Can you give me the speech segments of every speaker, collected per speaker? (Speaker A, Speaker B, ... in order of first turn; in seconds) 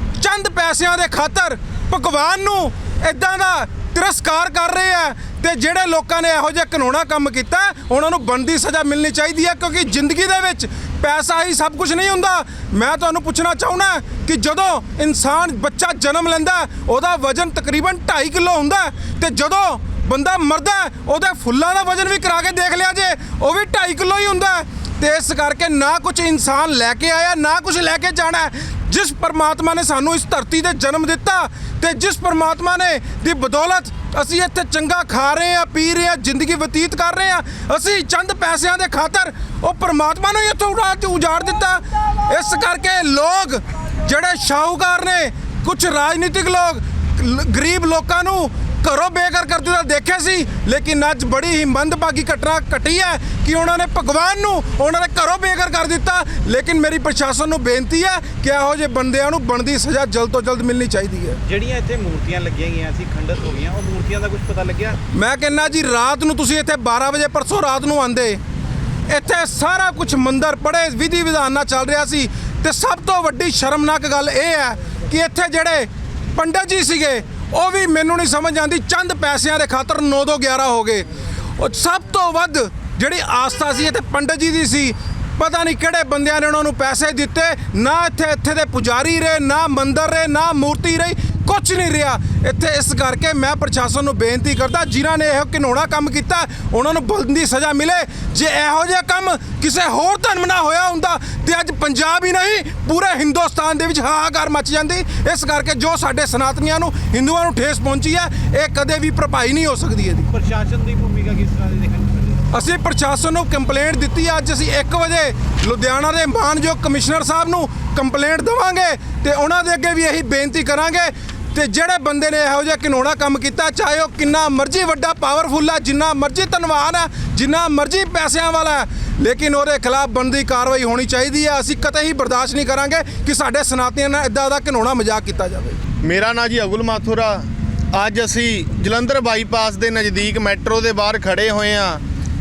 Speaker A: 0.2-61.4, 65.1-68.4, 69.1-110.3, 112.5-135.8
Speaker B: 61.5-65.0, 110.3-112.4
Speaker C: 136.0-142.0